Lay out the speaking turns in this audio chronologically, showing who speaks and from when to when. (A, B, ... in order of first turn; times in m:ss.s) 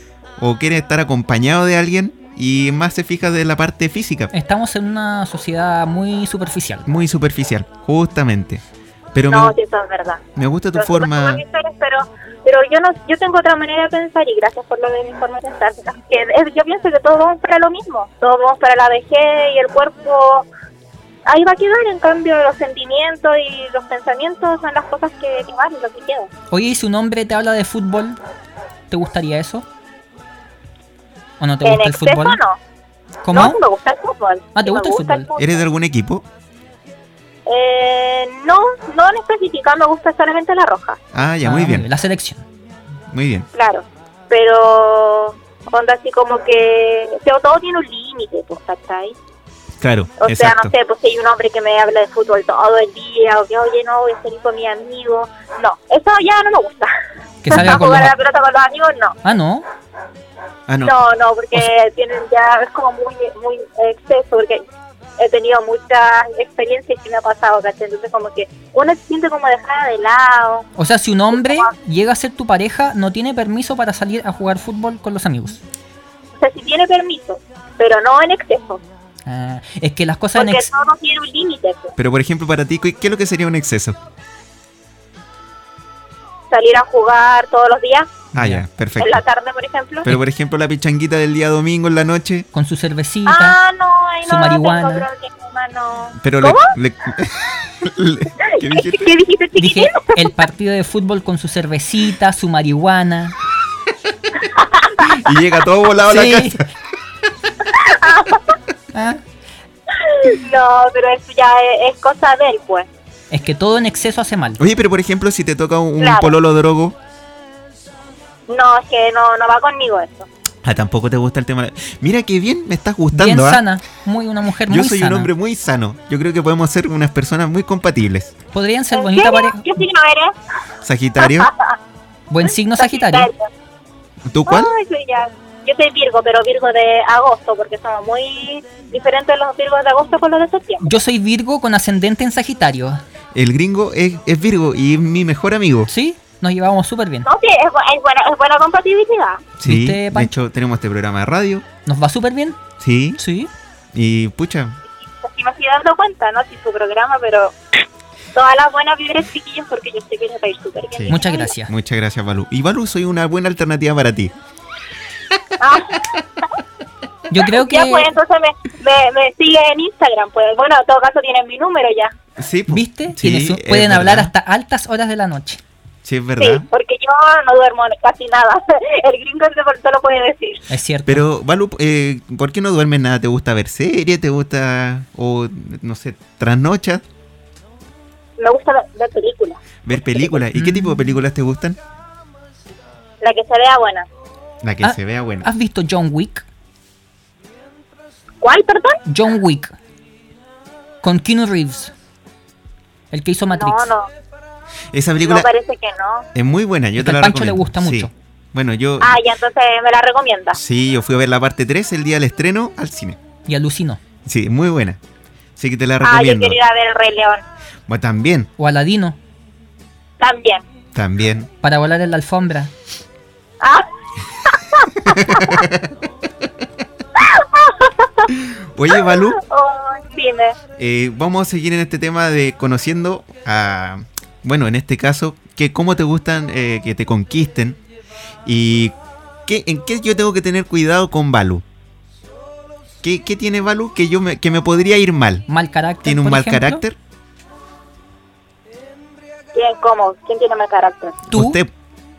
0:00.4-0:04.3 A
0:04.3-0:06.9 B
0:06.8-0:08.6 A
0:09.1-0:09.6 A
0:09.3-0:10.2 C
0:10.4-0:11.4 A
0:10.7-0:20.5 C
0:21.2-0:26.3 C
0:26.5-0:28.2 B
0:28.9-0:29.6 B
0:31.4-0:32.4 B
0:31.6-0:32.6 C
0:33.2-0:33.6 B
0:33.3-0:35.6 C
0:34.5-0:35.2 B
0:35.4-0:36.2 A
0:37.4-0:41.0 C
0:41.1-0:41.9 A
0:41.4-0:42.4 B
0:43.1-0:43.5 A
0:43.5-0:49.2 C
0:49.8-0:50.7 A
0:50.2-0:56.9 C
0:57.4-0:58.1 B
0:57.5-0:59.2 C
0:59.2-0:59.6 B
1:00.7-1:01.0 A
1:00.8-1:04.6 C
1:05.2-1:10.7 C
1:10.8-1:15.6 B
1:11.3-1:11.7 C
1:16.4-1:18.8 C
1:19.2-1:20.7 B
1:20.3-1:21.9 C
1:22.0-1:24.0 A
1:26.5-1:28.2 C
1:28.3-1:28.6 B
1:28.3-1:29.2 A
1:29.0-1:30.1 C
1:30.0-1:32.5 A
1:32.5-1:33.6 B
1:33.3-1:36.7 C
1:34.3-1:35.0 B
1:36.2-1:39.1 A
1:38.4-1:40.3 C
1:39.6-1:43.3 B
1:44.4-1:45.2 C
1:45.0-1:46.6 A
1:46.0-1:46.6 B
1:47.7-1:48.6 C
1:48.9-1:49.2 B
1:49.9-1:52.9 C
1:53.3-1:54.6 B
1:54.6-1:57.0 A
1:56.0-1:56.3 C
1:58.5-2:00.3 C
2:00.6-2:03.6 A
2:03.1-2:05.3 B
2:04.7-2:08.3 A
2:08.5-2:09.7 B
2:08.9-2:10.4 C
2:10.8-2:11.5 A
2:11.2-2:11.8 C
2:12.3-2:13.3 B
2:12.5-2:13.5 C
2:14.2-2:14.7 A
2:14.5-2:20.8 C
2:20.8-2:23.0 B
2:23.3-2:25.9 A
2:25.9-2:27.3 B
2:27.2-2:29.5 C
2:29.6-2:31.6 A
2:29.6-2:30.3 B
2:31.8-2:32.6 B
2:32.8-2:33.2 A
2:33.2-2:33.5 B
2:33.9-2:34.8 A
2:35.1-2:37.6 C
2:38.3-2:41.5 C
2:40.9-2:44.3 A
2:41.1-2:41.7 B
2:45.6-2:46.5 C
2:47.3-2:48.1 B
2:47.4-2:52.1 C
2:52.4-2:54.3 A
2:52.7-2:55.6 B
2:56.0-2:56.7 A
2:56.4-3:00.7 C
3:00.7-3:01.2 B
3:01.0-3:07.0 A
3:08.4-3:10.4 C
3:09.8-3:11.8 A
3:10.5-3:11.1 B
3:13.2-3:14.1 C
3:14.6-3:15.5 A
3:14.8-3:16.4 B
3:18.4-3:19.0 C
3:19.0-3:19.7 B
3:21.0-3:21.9 B
3:23.1-3:23.9 B
3:23.6-3:24.1 C
3:24.9-3:25.5 A
3:25.2-3:26.3 C
3:26.3-3:29.2 A
3:27.0-3:28.1 B
3:29.0-3:30.6 C
3:30.5-3:33.2 A
3:33.5-3:34.0 B
3:34.2-3:35.0 A
3:35.6-3:36.6 A
3:36.0-3:37.4 C
3:37.9-3:38.5 A
3:38.6-3:39.2 B
3:40.2-3:40.6 C
3:40.9-3:41.5 A
3:41.6-3:42.7 B
3:43.6-3:43.9 C
3:44.4-3:45.6 C
3:45.0-3:45.9 A
3:47.2-3:48.3 C
3:48.3-3:49.4 A
3:48.9-3:50.6 C
3:50.8-3:57.8 A
3:58.4-4:01.6 A
4:03.0-4:05.5 A
4:05.5-4:06.8 B
4:06.0-4:07.0 A
4:09.5-4:11.2 C
4:11.3-4:11.7 A
4:11.3-4:11.6 B